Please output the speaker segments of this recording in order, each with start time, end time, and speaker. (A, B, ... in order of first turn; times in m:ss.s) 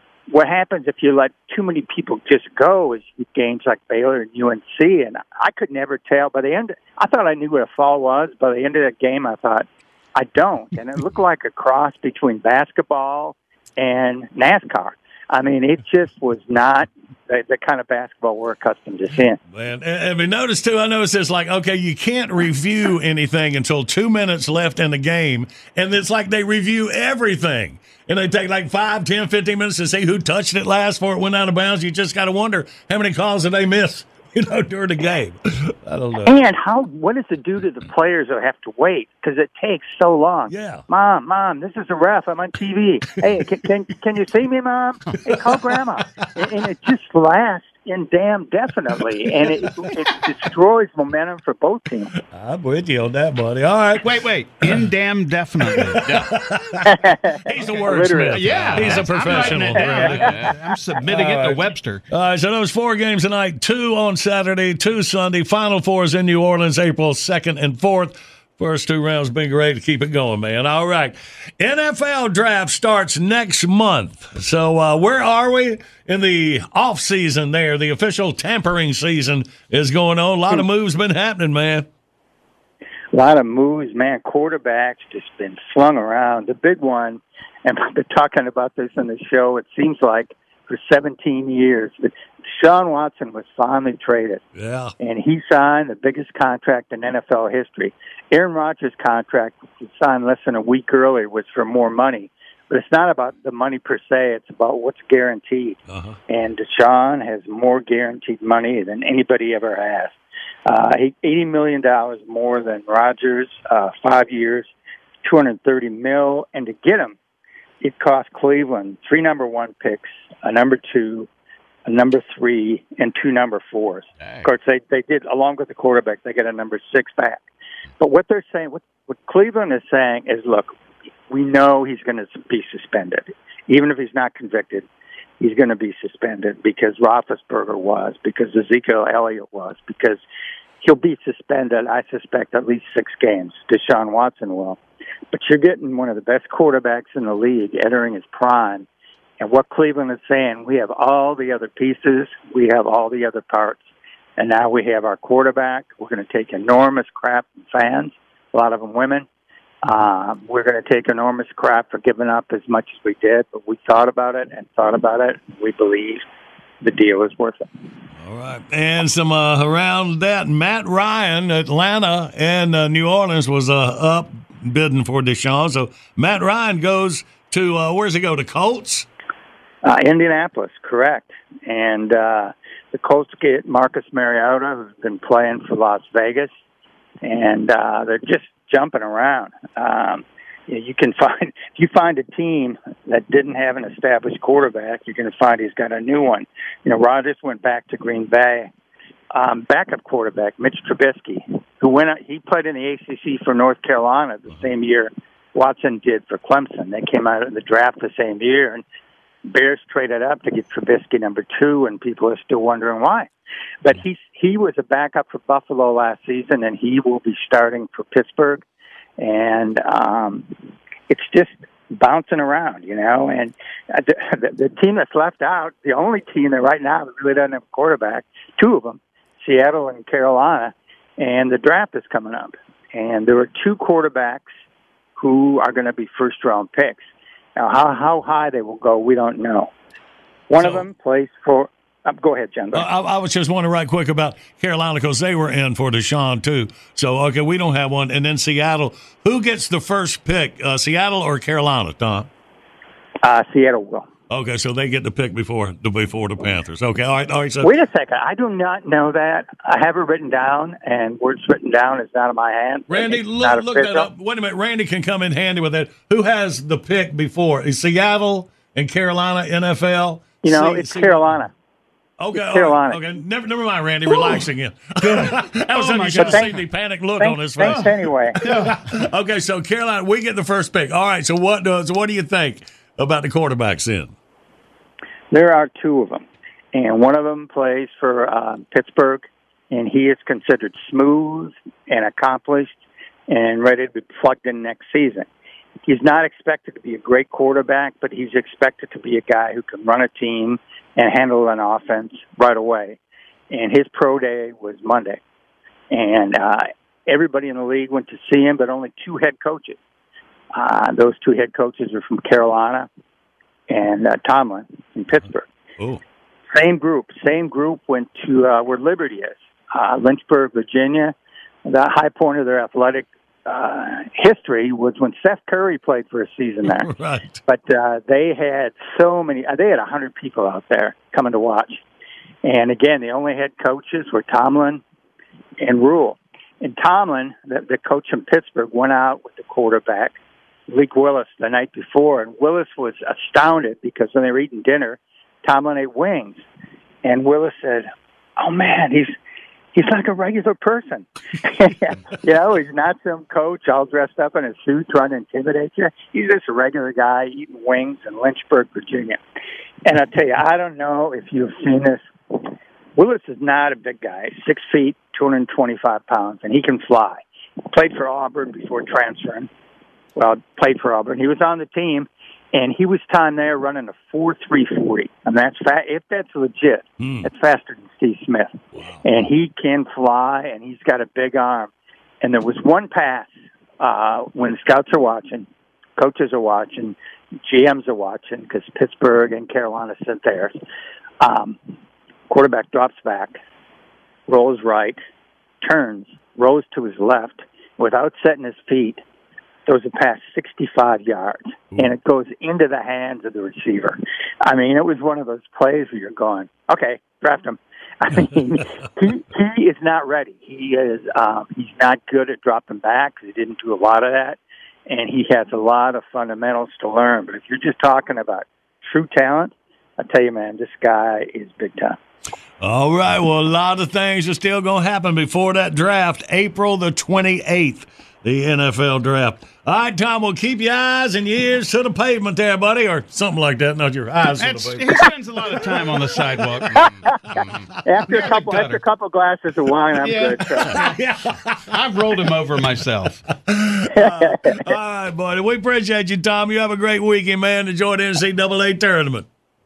0:00.3-0:19.4 A
0:19.5-0:36.4 B
0:36.3-0:52.1 A
0:40.5-0:40.9 B
0:43.2-0:43.4 B
0:45.3-0:46.3 B
0:52.3-0:54.1 B
0:54.0-0:56.1 C
0:55.8-1:00.5 B
0:56.9-0:58.5 A
0:58.3-1:02.0 C
0:59.7-1:00.2 A
1:01.1-1:21.9 B
1:23.1-1:34.4 A
1:34.6-1:35.0 B
1:35.0-1:45.8 A
1:45.9-1:46.2 B
1:46.3-1:50.2 A
1:50.7-1:54.7 A
1:55.2-1:57.2 A
1:57.8-2:01.3 A
2:01.9-2:07.4 A
2:08.0-2:10.7 A
2:11.3-2:14.9 A
2:15.4-2:20.2 A
2:20.8-2:24.8 A
2:25.3-2:28.9 A
2:29.4-2:33.8 A
2:34.4-2:39.3 A
2:39.8-2:46.2 A
2:46.8-2:47.7 A
2:48.2-2:59.1 B
2:59.8-3:06.5 A
3:07.2-3:18.7 A
3:19.3-3:28.8 A
3:29.5-3:33.3 A
3:33.8-3:38.6 A
3:39.2-3:40.5 A
3:41.1-3:54.5 A
3:55.2-3:57.0 A
3:57.6-3:59.7 A
4:00.5-4:02.9 A
4:00.6-4:00.9 B
4:02.7-4:12.3 B
4:13.2-4:14.1 A
4:14.3-4:17.7 B
4:17.6-4:24.1 A
4:22.9-4:31.5 B
4:30.4-4:31.5 A
4:32.2-4:44.1 B
4:32.4-4:33.0 A
4:35.7-4:36.5 C
4:36.2-4:36.6 A
4:37.2-4:38.4 A
4:37.6-4:38.8 C
4:45.3-4:52.8 A
4:53.3-4:55.3 A
4:55.9-5:03.0 A
5:03.5-5:05.2 A
5:05.9-5:09.8 A
5:10.6-5:12.9 A
5:13.7-5:15.4 A
5:16.5-5:21.1 A
5:21.7-5:26.9 A
5:26.7-5:27.4 B
5:27.5-5:31.8 A
5:32.4-5:34.8 A
5:35.6-5:40.2 A
5:40.7-5:46.4 A
5:47.0-5:49.1 A
5:49.8-5:59.2 A
5:59.9-6:02.0 A
6:03.0-6:09.5 A
6:10.2-6:21.7 A
6:17.0-6:17.3 B
6:18.8-6:19.0 B
6:22.2-6:23.3 A
6:23.8-6:25.5 A
6:26.0-6:27.0 A
6:27.5-6:30.6 A
6:31.2-6:31.6 A
6:32.3-6:33.4 A
6:34.3-6:35.0 A
6:35.6-6:39.0 A
6:39.7-7:02.0 A
7:02.6-7:15.0 B
7:14.4-7:16.9 C
7:17.9-7:20.8 A
7:18.1-7:18.8 C
7:20.0-7:20.9 C
7:20.7-7:21.6 B
7:21.7-7:23.2 C
7:23.5-7:29.3 B
7:24.0-7:24.6 A